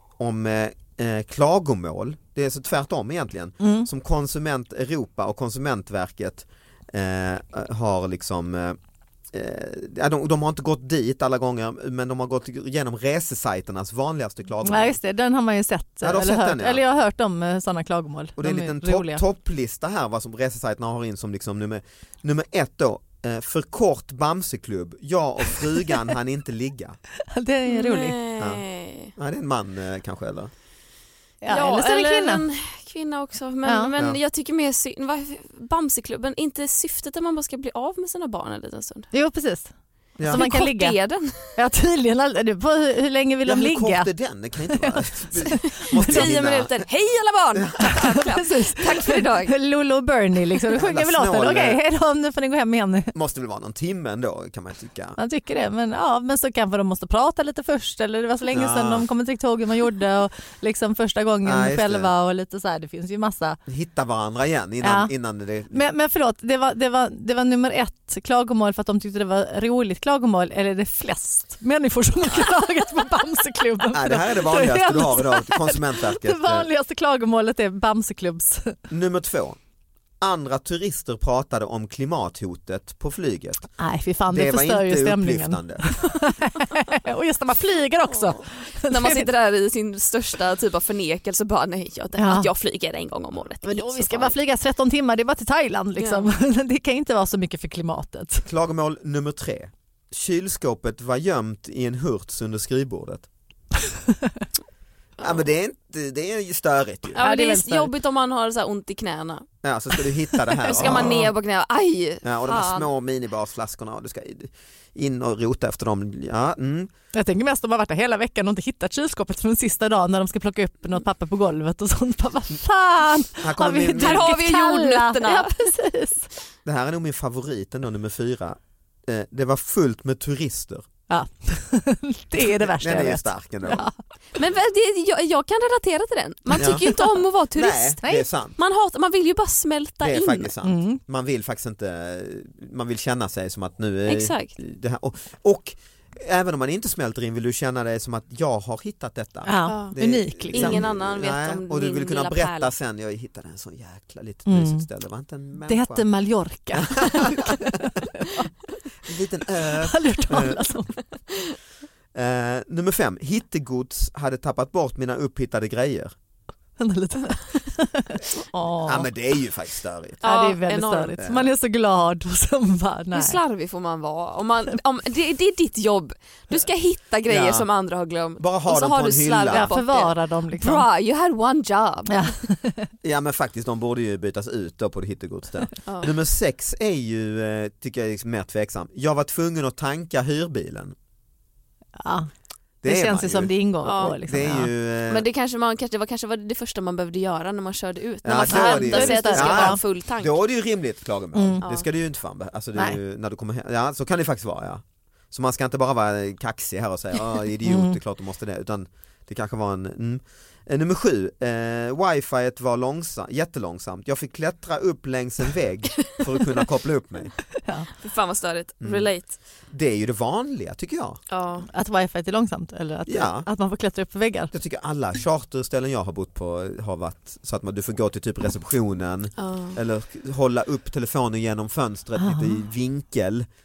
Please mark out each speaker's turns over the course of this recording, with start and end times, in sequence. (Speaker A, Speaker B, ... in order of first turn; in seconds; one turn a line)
Speaker A: 0.2-8.8
Speaker B: 3.6-3.9
Speaker A: 9.3-15.0
Speaker B: 14.6-19.2
Speaker A: 16.0-16.8
Speaker A: 18.4-27.0
Speaker B: 27.3-28.2
Speaker C: 27.7-29.1
Speaker A: 28.4-28.6
Speaker A: 29.1-30.5
Speaker B: 31.4-32.4
Speaker C: 31.5-39.1
Speaker B: 33.6-33.9
Speaker B: 39.1-39.7
Speaker A: 40.2-40.5
Speaker B: 40.3-44.1
Speaker C: 40.3-41.6
Speaker A: 43.5-46.8
Speaker B: 44.7-46.2
Speaker C: 45.8-49.5
Speaker A: 47.6-47.9
Speaker B: 47.8-53.1
Speaker A: 50.7-51.8
Speaker A: 53.1-55.2
Speaker B: 55.2-63.6
Speaker A: 58.5-59.1
Speaker A: 61.5-62.1
Speaker A: 63.7-65.8
Speaker B: 64.8-65.1
Speaker B: 65.7-78.8
Speaker A: 73.9-76.7
Speaker A: 78.9-79.6
Speaker A: 80.2-83.7
Speaker B: 83.8-89.3
Speaker A: 84.3-85.9
Speaker C: 88.9-94.3
Speaker B: 92.2-92.5
Speaker B: 93.6-98.5
Speaker C: 96.0-96.3
Speaker A: 98.5-103.3
Speaker A: 105.2-107.2
Speaker C: 107.2-109.5
Speaker B: 107.2-107.9
Speaker A: 109.6-111.3
Speaker C: 110.7-112.9
Speaker A: 112.2-116.9
Speaker B: 117.1-126.3
Speaker A: 123.4-124.3
Speaker C: 124.0-125.7
Speaker A: 126.7-130.9
Speaker B: 131.1-133.9
Speaker A: 132.4-133.8
Speaker C: 134.4-138.0
Speaker A: 136.6-136.9
Speaker A: 137.5-138.6
Speaker C: 138.6-140.5
Speaker A: 140.0-156.1
Speaker B: 140.6-141.0
Speaker C: 144.1-144.5
Speaker B: 149.5-150.8
Speaker C: 149.7-149.9
Speaker C: 150.5-152.7
Speaker B: 154.5-154.9
Speaker B: 155.7-158.5
Speaker A: 156.7-157.7
Speaker A: 159.0-160.7
Speaker B: 159.8-161.0
Speaker A: 162.1-166.1
Speaker B: 166.8-169.1
Speaker A: 168.8-170.2
Speaker C: 170.2-171.2
Speaker B: 170.2-173.4
Speaker A: 171.2-171.5
Speaker C: 173.1-182.3
Speaker A: 177.3-177.7
Speaker A: 178.4-179.7
Speaker B: 179.5-180.9
Speaker B: 182.1-182.9
Speaker A: 183.0-190.9
Speaker C: 185.9-186.1
Speaker B: 192.0-192.3
Speaker A: 192.8-193.6
Speaker B: 192.8-194.7
Speaker C: 193.8-194.2
Speaker A: 194.1-195.3
Speaker C: 195.1-200.4
Speaker A: 198.2-217.3
Speaker B: 198.5-199.8
Speaker B: 201.3-201.6
Speaker B: 207.7-208.0
Speaker C: 218.0-219.4
Speaker A: 218.8-219.1
Speaker A: 219.7-221.2
Speaker C: 221.3-221.7
Speaker B: 221.7-224.5
Speaker A: 223.1-223.5
Speaker A: 224.5-233.5
Speaker C: 229.4-229.8
Speaker B: 232.2-232.6